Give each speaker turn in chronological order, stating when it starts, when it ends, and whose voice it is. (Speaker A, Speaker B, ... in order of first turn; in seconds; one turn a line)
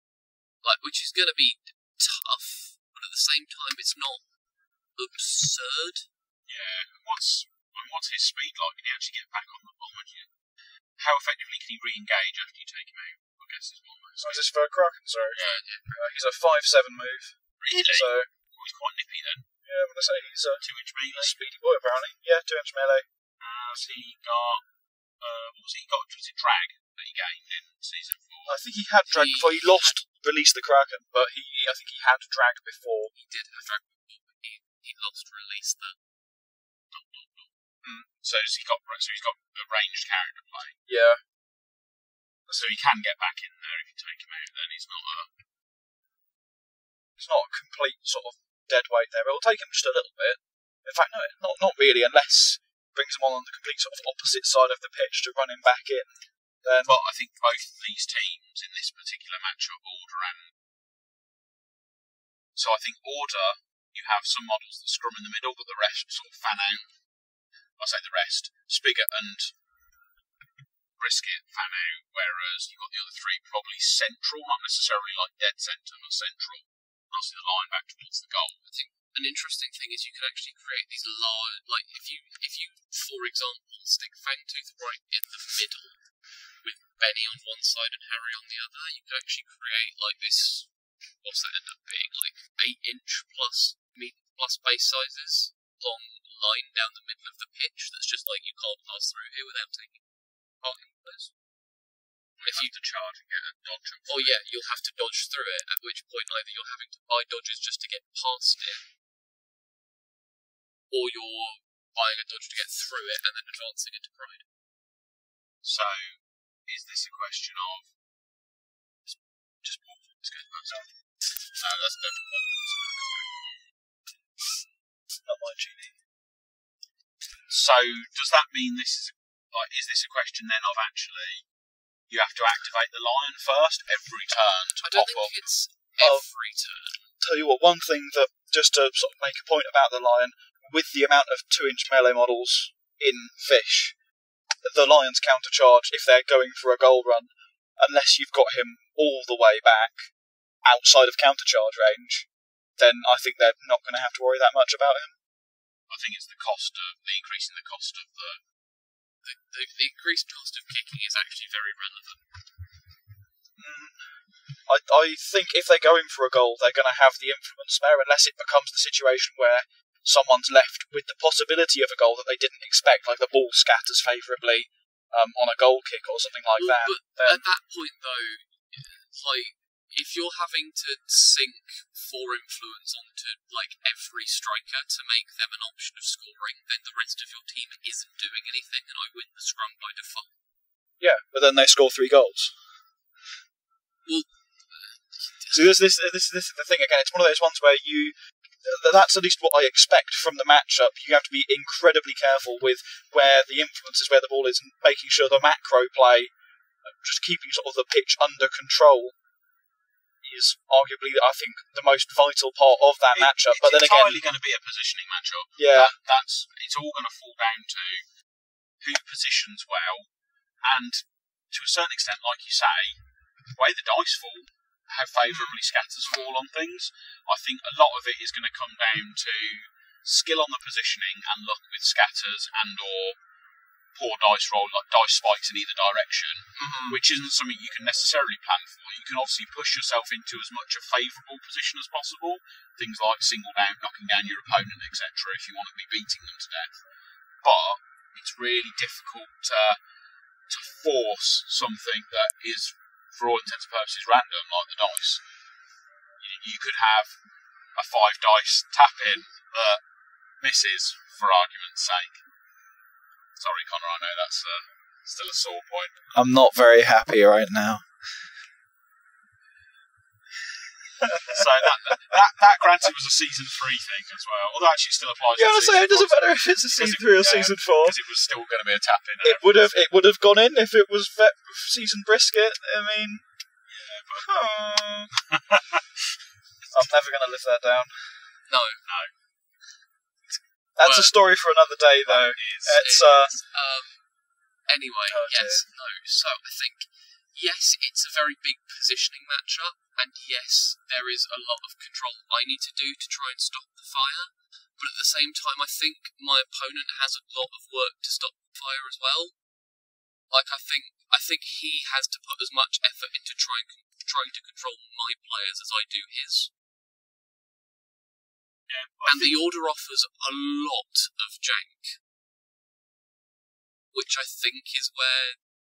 Speaker A: 0.6-4.2
Speaker A: 4.9-6.1
Speaker B: 6.5-10.3
Speaker B: 11.0-14.5
Speaker C: 14.2-15.4
Speaker B: 15.3-15.6
Speaker A: 15.4-16.1
Speaker C: 15.9-18.3
Speaker B: 17.6-19.5
Speaker C: 19.6-20.6
Speaker B: 20.6-21.5
Speaker C: 21.1-23.1
Speaker B: 23.4-24.6
Speaker B: 25.2-28.6
Speaker C: 28.4-33.1
Speaker A: 29.0-30.0
Speaker A: 33.1-36.0
Speaker A: 36.9-37.5
Speaker B: 37.9-40.8
Speaker C: 40.9-41.2
Speaker B: 42.5-45.3
Speaker C: 47.2-57.0
Speaker B: 56.8-60.5
Speaker B: 62.5-66.9
Speaker B: 67.8-69.5
Speaker B: 71.0-78.6
Speaker A: 78.6-86.0
Speaker A: 86.6-100.0
Speaker A: 100.6-101.3
Speaker B: 102.4-104.3
Speaker A: 102.4-102.7
Speaker A: 104.0-108.9
Speaker A: 110.9-114.5
Speaker B: 115.6-117.9
Speaker B: 119.1-120.9
Speaker B: 121.5-123.4
Speaker C: 125.2-126.0
Speaker B: 127.5-131.4
Speaker B: 132.1-135.5
Speaker A: 134.8-137.0
Speaker C: 136.0-136.2
Speaker C: 137.2-143.9
Speaker C: 144.6-150.1
Speaker C: 150.6-152.3
Speaker C: 152.8-155.2
Speaker B: 155.9-158.4
Speaker A: 159.2-162.2
Speaker C: 163.6-164.1
Speaker C: 164.7-177.4
Speaker A: 176.6-190.3
Speaker C: 191.0-192.5
Speaker A: 194.1-195.7
Speaker C: 195.5-206.3
Speaker C: 206.8-209.2
Speaker C: 210.2-214.2
Speaker B: 213.1-218.1
Speaker C: 215.6-216.0
Speaker B: 218.8-220.1
Speaker B: 220.6-233.2
Speaker B: 233.9-246.8
Speaker C: 236.6-236.9
Speaker B: 247.4-249.8
Speaker B: 250.5-255.2
Speaker B: 256.2-257.1
Speaker B: 257.7-259.8
Speaker B: 260.4-262.2
Speaker B: 263.4-266.0
Speaker C: 266.1-267.9
Speaker C: 271.0-272.2
Speaker B: 271.3-279.6
Speaker C: 275.4-277.9
Speaker C: 279.2-283.3
Speaker B: 283.7-284.3
Speaker C: 284.2-285.1
Speaker B: 285.1-285.8
Speaker C: 286.7-288.2
Speaker A: 288.5-288.8
Speaker B: 288.8-289.1
Speaker C: 290.7-293.3
Speaker A: 290.8-291.1
Speaker B: 292.1-292.8
Speaker A: 292.4-294.0
Speaker A: 294.7-309.4
Speaker C: 295.1-295.6
Speaker A: 310.3-316.5
Speaker B: 318.7-319.4
Speaker A: 319.0-322.0
Speaker A: 323.9-325.4